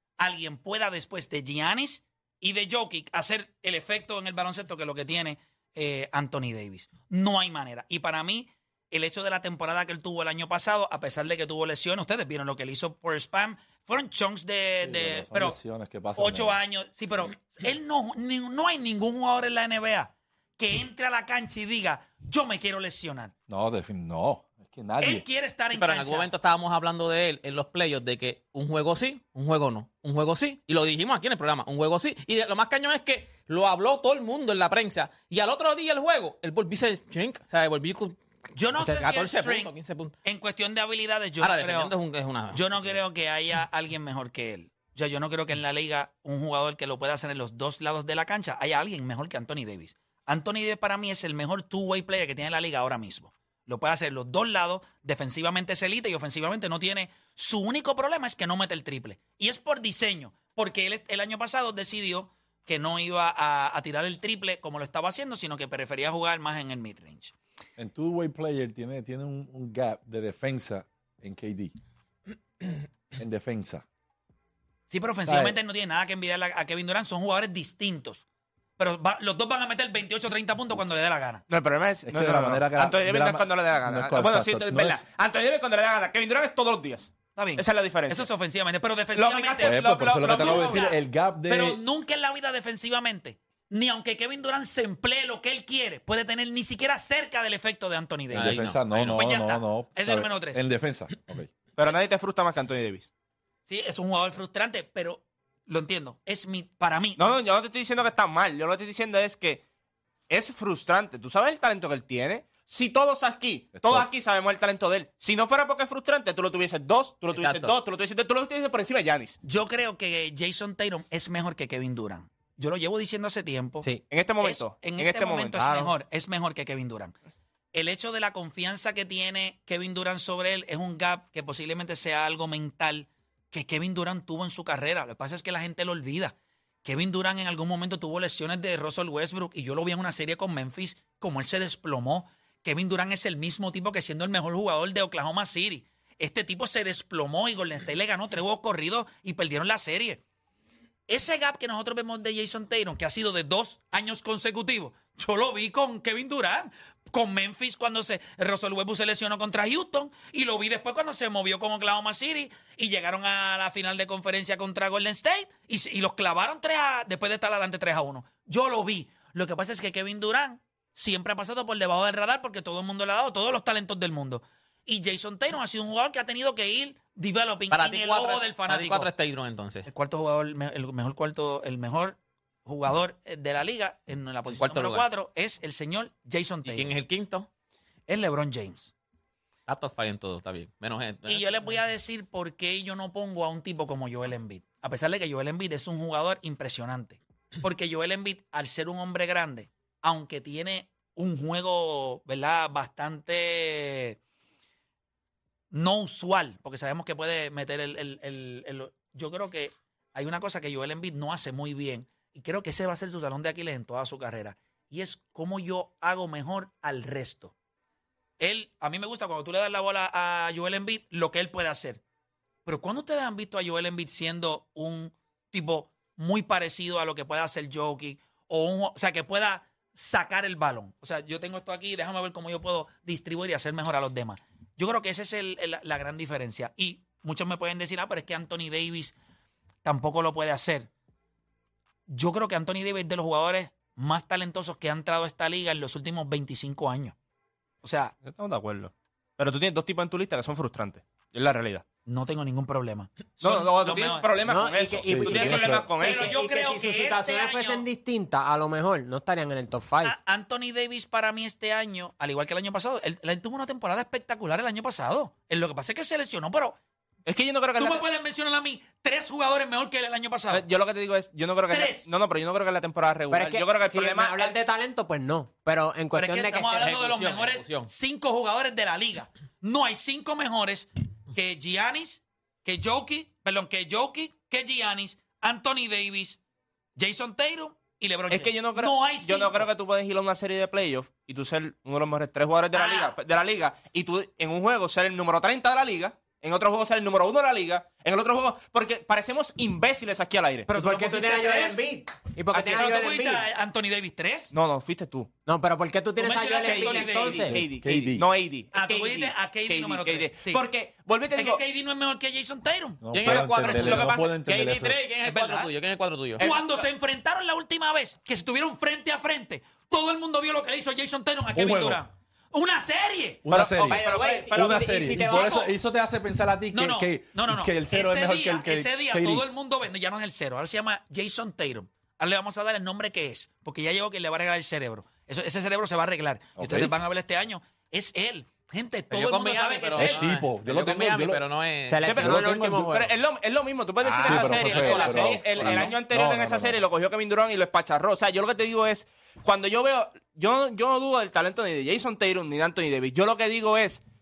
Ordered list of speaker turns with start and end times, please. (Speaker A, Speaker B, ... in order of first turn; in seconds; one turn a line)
Speaker A: 0.2-15.6
Speaker B: 14.8-16.6
Speaker A: 16.2-23.3
Speaker B: 23.5-25.2
Speaker A: 25.0-26.3
Speaker C: 25.7-38.2
Speaker A: 38.6-39.7
Speaker C: 38.8-40.1
Speaker A: 40.2-41.9
Speaker C: 41.4-43.0
Speaker A: 42.5-67.3
Speaker B: 67.8-71.8
Speaker B: 73.2-73.8
Speaker A: 74.9-78.2
Speaker B: 75.2-75.6
Speaker A: 78.8-81.4
Speaker D: 81.5-88.3
Speaker B: 82.0-85.0
Speaker A: 87.4-100.6
Speaker D: 89.1-90.9
Speaker B: 89.6-91.8
Speaker B: 98.3-101.5
Speaker C: 98.3-98.8
Speaker D: 101.8-103.1
Speaker A: 103.7-107.3
Speaker D: 107.2-109.6
Speaker D: 110.3-119.4
Speaker B: 113.7-114.1
Speaker C: 117.3-117.7
Speaker A: 119.4-123.9
Speaker D: 124.1-125.6
Speaker A: 124.4-127.2
Speaker E: 125.6-125.9
Speaker A: 127.7-150.2
Speaker A: 151.1-179.1
Speaker C: 177.7-179.9
Speaker A: 179.9-186.9
Speaker C: 184.6-185.1
Speaker C: 186.7-187.5
Speaker A: 188.1-188.9
Speaker C: 189.7-191.8
Speaker A: 191.3-204.2
Speaker A: 205.7-217.5
Speaker A: 218.4-222.0
Speaker A: 222.7-239.2
Speaker A: 239.8-240.9
Speaker A: 242.1-247.2
Speaker A: 247.8-248.1
Speaker D: 248.2-251.8
Speaker A: 252.1-254.3
Speaker D: 253.4-256.4
Speaker E: 254.4-260.2
Speaker B: 255.1-255.8
Speaker A: 255.4-257.8
Speaker A: 260.0-266.8
Speaker D: 267.2-268.0
Speaker A: 267.8-270.6
Speaker D: 270.5-274.6
Speaker A: 271.7-272.1
Speaker E: 273.3-276.9
Speaker A: 276.1-286.4
Speaker C: 276.8-277.9
Speaker A: 287.0-289.7
Speaker D: 288.3-300.7
Speaker A: 292.7-293.1
Speaker A: 300.7-301.8
Speaker E: 300.7-303.4
Speaker D: 302.5-302.9
Speaker A: 302.7-304.5
Speaker D: 304.5-305.3
Speaker E: 305.5-307.7
Speaker A: 306.2-307.5
Speaker D: 306.5-311.6
Speaker B: 307.5-308.3
Speaker A: 308.7-310.7
Speaker A: 311.3-313.0
Speaker B: 313.0-315.0
Speaker C: 313.1-316.5
Speaker D: 313.2-314.3
Speaker A: 315.3-315.7
Speaker A: 316.4-323.4
Speaker D: 316.4-316.9
Speaker B: 321.5-322.0
Speaker B: 323.4-329.5
Speaker D: 323.5-325.5
Speaker E: 323.8-325.6
Speaker A: 325.4-325.7
Speaker A: 326.7-340.2
Speaker B: 336.6-336.9
Speaker C: 339.1-342.1
Speaker B: 340.0-341.4
Speaker E: 341.9-343.0
Speaker D: 342.0-354.0
Speaker B: 342.1-343.1
Speaker C: 344.0-345.9
Speaker B: 344.2-346.8
Speaker E: 344.2-345.2